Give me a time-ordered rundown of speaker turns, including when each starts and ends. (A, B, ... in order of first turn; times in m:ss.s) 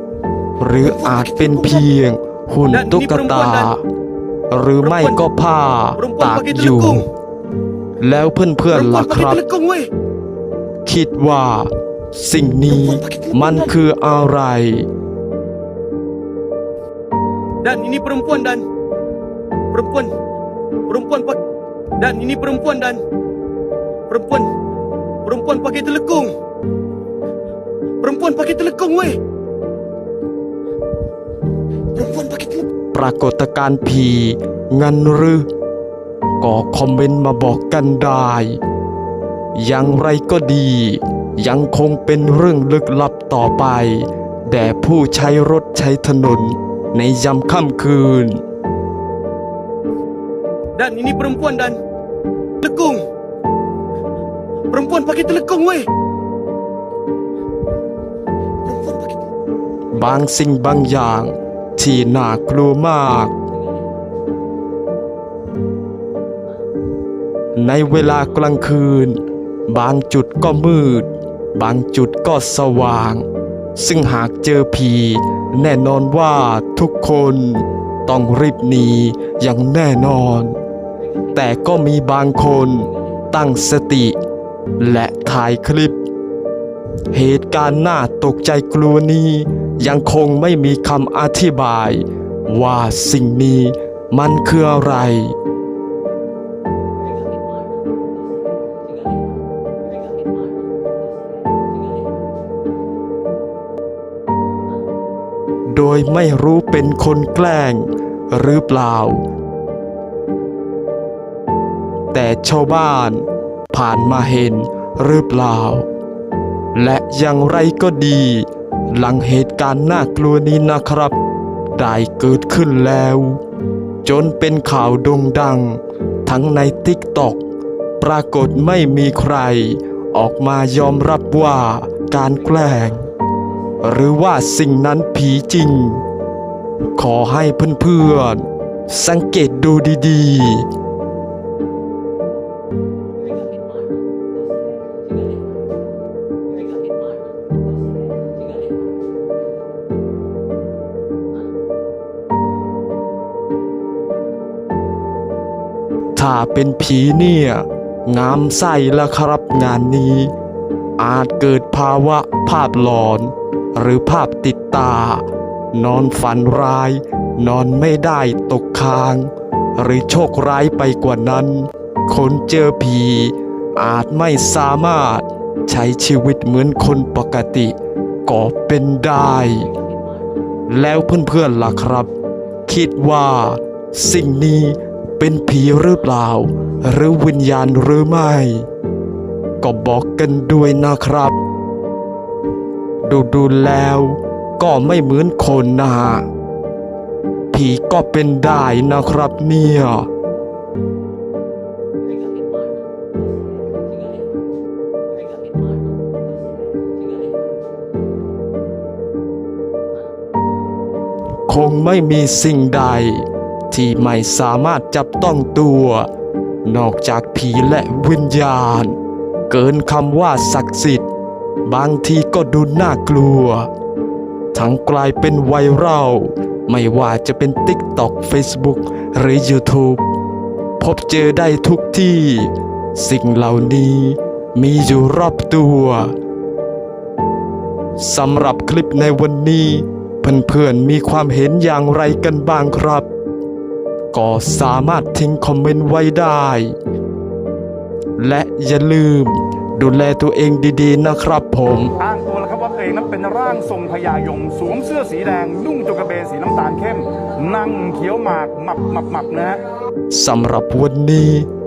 0:00.6-0:03.8 A
0:01.0-0:01.8 B
0:02.7-0:03.7 B
0:04.5-0:07.1 A
0:04.8-0:05.2 B
0:06.0-0:07.1 B
0:08.0-0:09.4 A
0:08.7-0:09.9 B
0:10.8-0:14.9 A
0:12.8-0:13.5 B
0:17.6-0:18.6 B
0:19.7-0:20.1 B
0:20.9-0:21.4 B
0:22.0-0:23.0 B
0:24.1-0:24.5 B
0:25.2-0:26.4 B
0:28.0-0:29.2 B
0:31.9-0:32.7 B
0:32.9-0:35.5 A
0:36.4-0:38.6 A
0:39.5-0:48.4 A
0:50.8-0:51.8 B
0:52.6-0:53.0 B
0:54.7-0:55.9 B
0:58.6-0:59.1 B
0:59.9-1:03.3 A
1:07.5-1:13.2 A
1:13.8-1:20.5 A
1:21.3-1:24.2 A
1:24.8-1:26.0 A
1:27.1-1:35.3 A
1:45.7-1:49.2 A
1:52.1-1:55.8 A
1:56.7-2:01.1 A
2:01.7-2:03.4 A
2:04.0-2:07.4 A
2:08.0-2:13.1 A
2:13.8-2:16.0 A
2:16.9-2:20.6 A
2:36.2-2:40.3 A
2:41.0-2:57.8 A
2:58.2-2:59.7 A
3:00.7-3:02.1 A
3:02.7-3:08.6 A
3:09.6-3:11.4 A
3:13.0-3:16.2 A
3:17.5-3:20.1 A
3:31.5-3:36.1 A
3:36.6-3:39.0 A
3:39.5-3:41.0 A
3:41.6-3:43.7 A
3:44.5-3:50.0 A
3:50.8-3:56.1 A
3:58.0-4:03.1 A
4:04.1-4:06.7 A
4:08.2-4:11.9 A
4:12.0-4:19.6 C
4:20.1-4:21.5 A